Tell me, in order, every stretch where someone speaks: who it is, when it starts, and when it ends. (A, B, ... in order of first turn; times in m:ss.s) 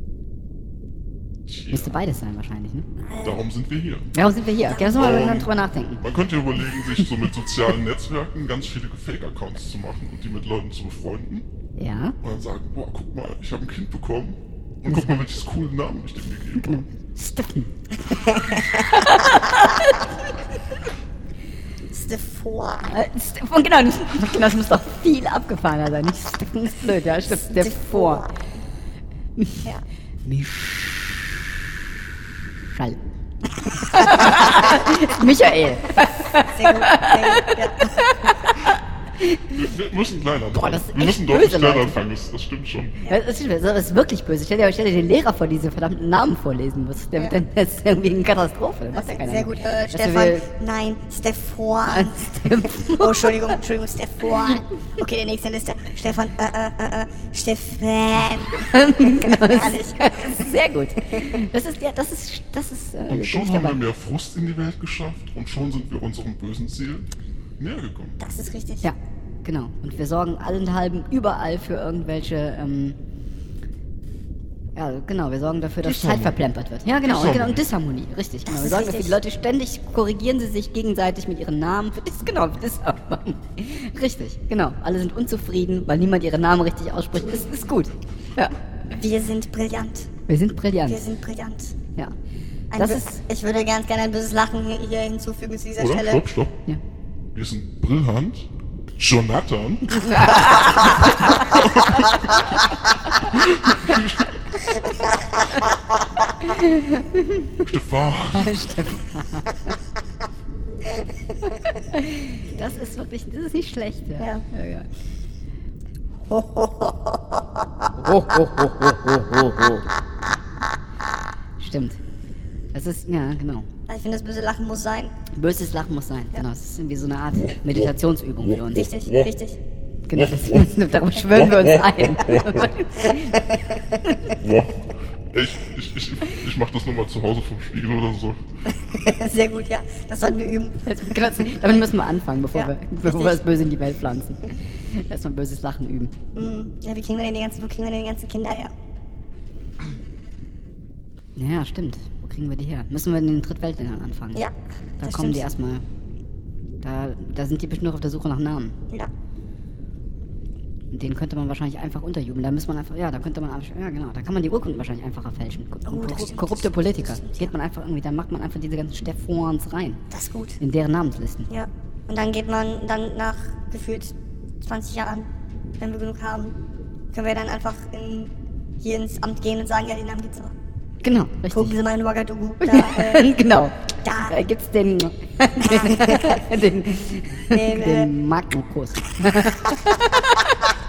0:01.5-0:02.0 A
0:01.7-0:02.9 B
0:03.0-0:03.4 C
0:03.2-0:04.1 A
0:04.1-0:06.0 B
0:04.6-0:05.1 C
0:04.8-0:11.5 A
0:11.8-0:12.2 B
0:12.2-0:16.8 A
0:16.6-0:20.1 B
0:21.9-0:23.0 C
0:22.9-0:28.3 B
0:27.3-0:28.3 C
0:29.4-0:29.6 B
0:30.2-0:31.4 B
0:32.7-0:33.0 B
0:33.7-0:39.5 B
0:36.4-0:38.0 C
0:39.5-0:43.0 A
0:40.5-0:42.0 B
0:43.1-0:50.5 B
0:48.9-1:00.5 C
0:51.9-0:53.5 B
0:58.6-1:03.8 B
1:03.1-1:07.1 A
1:07.6-1:08.2 A
1:08.2-1:08.9 C
1:08.8-1:13.0 B
1:14.8-1:28.6 B
1:15.8-1:16.4 A
1:17.0-1:17.6 A
1:18.5-1:19.2 C
1:29.0-1:30.1 C
1:30.3-1:31.0 B
1:30.9-1:31.8 C
1:32.7-1:36.3 C
1:32.8-1:33.1 B
1:35.8-1:36.6 A
1:37.3-1:40.5 A
1:40.0-1:41.5 B
1:41.5-1:42.4 A
1:43.3-1:44.3 A
1:46.4-1:47.5 B
1:47.6-1:48.6 A
1:48.4-1:49.7 B
1:51.8-1:54.9 B
1:56.3-1:57.4 C
1:58.0-1:59.8 B
2:01.6-2:02.0 B
2:02.7-2:03.7 B
2:03.9-2:05.1 C
2:05.3-2:08.9 B
2:08.7-2:09.6 C
2:10.1-2:13.5 B
2:10.2-2:10.6 A
2:12.3-2:12.6 A
2:14.1-2:14.4 B
2:14.3-2:18.4 A
2:18.8-2:20.8 C
2:20.9-2:26.1 B
2:22.6-2:23.4 C
2:26.4-2:28.7 C
2:31.4-2:34.4 B
2:34.4-2:35.4 C
2:35.0-2:35.8 B
2:36.8-2:38.8 B
2:40.9-2:50.0 B
2:45.9-2:47.5 C
2:50.1-2:50.6 C
2:50.6-2:51.5 B
2:51.5-2:55.3 C
2:55.8-2:56.6 C
2:57.1-3:00.5 C
3:01.0-3:01.8 B
3:01.5-3:03.3 C
3:02.6-3:10.5 B
3:04.0-3:04.4 C
3:05.7-3:06.4 C
3:07.5-3:08.1 C